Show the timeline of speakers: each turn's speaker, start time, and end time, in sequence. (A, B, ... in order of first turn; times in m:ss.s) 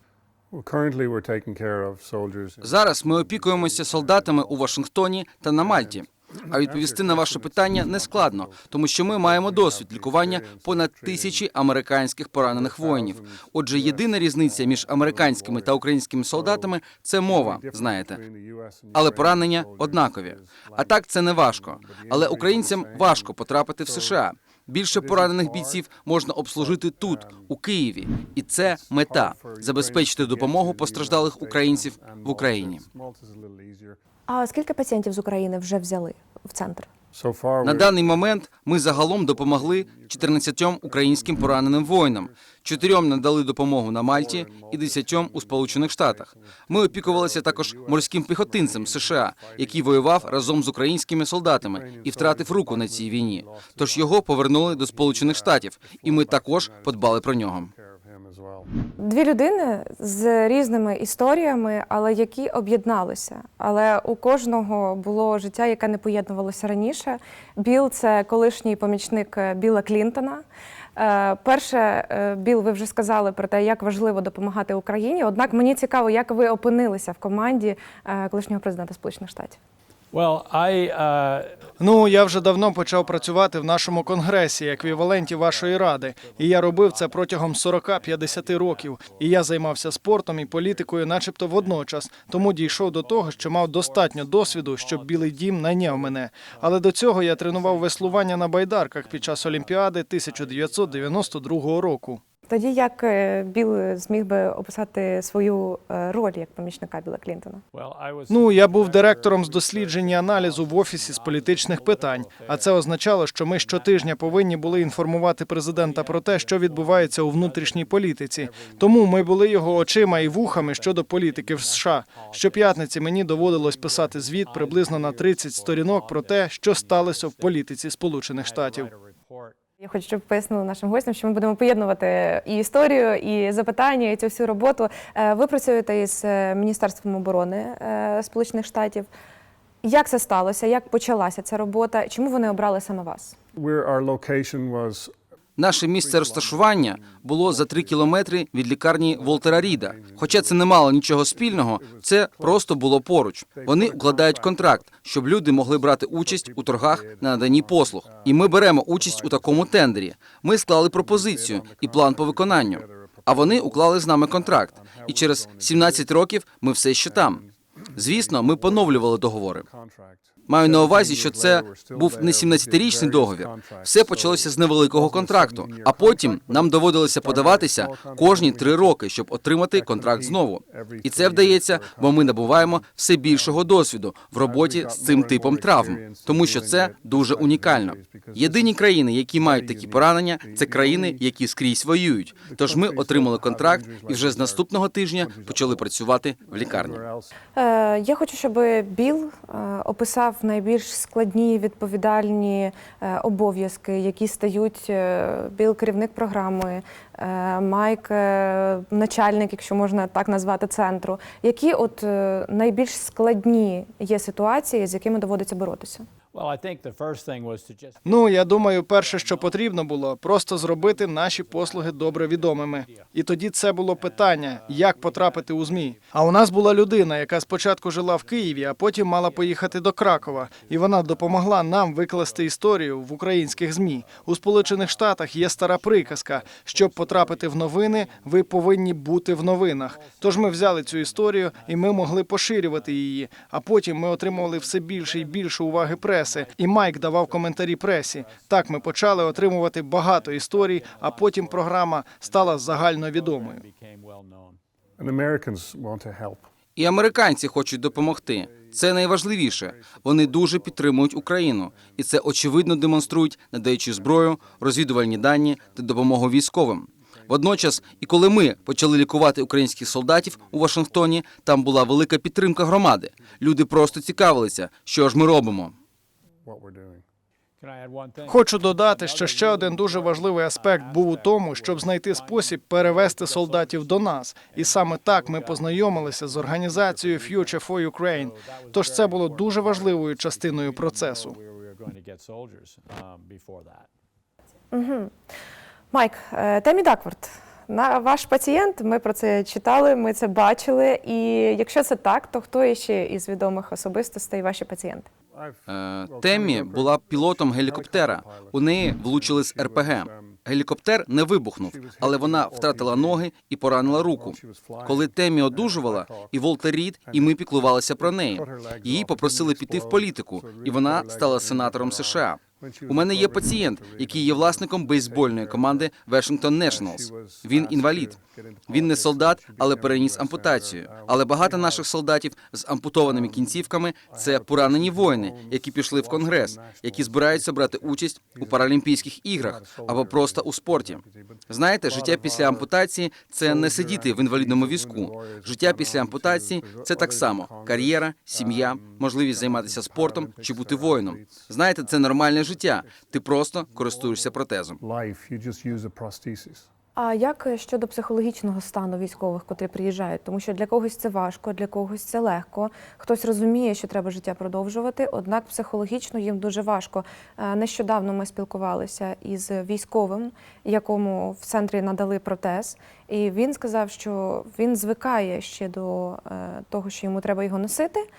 0:00.5-0:04.7 A
0:02.6-0:18.2 B
0:05.6-0:11.4 A
0:12.4-0:24.3 A
0:18.9-0:32.8 B
0:24.9-0:25.9 A
0:26.6-0:27.5 A
0:28.6-0:34.0 A
0:34.3-0:36.9 C
0:37.1-0:43.3 A
0:37.6-0:57.7 B
0:43.9-0:50.7 A
0:51.6-0:58.7 A
0:59.0-1:10.4 C
1:11.0-1:19.6 C
1:20.1-1:41.5 D
1:21.8-1:42.2 E
1:42.5-1:47.6 C
1:47.7-1:52.8 D
1:48.3-2:08.9 E
1:53.5-2:09.6 D
2:09.8-2:19.1 C
2:19.8-2:23.4 C
2:23.6-2:25.1 A
2:25.6-2:47.4 B
2:25.9-2:28.4 A
2:29.0-2:32.9 A
2:33.5-2:40.1 A
2:40.9-2:46.2 A
2:47.0-2:59.0 A
2:48.0-2:49.6 B
2:50.5-3:17.0 B
2:59.7-3:03.7 A
3:04.4-3:08.9 A
3:09.4-3:11.2 A
3:12.4-3:15.9 A
3:16.4-3:17.3 A
3:17.6-3:36.0 C
3:36.3-4:03.2 D
3:38.0-4:13.6 E
4:03.9-4:14.6 D
4:15.0-4:16.5 A
4:16.8-4:35.8 B
4:17.2-4:32.0 A
4:32.8-4:34.3 A
4:36.4-4:37.0 A
4:37.6-4:53.9 D
4:38.2-4:51.4 E
4:54.7-4:55.1 C
4:55.9-5:05.1 C
5:05.3-5:10.4 A
5:05.7-5:54.8 B
5:11.6-5:13.3 A
5:13.8-5:16.4 A
5:17.0-5:25.9 A
5:26.5-5:31.9 A
5:33.0-5:42.7 A
5:43.4-5:56.7 A
5:57.0-6:18.1 C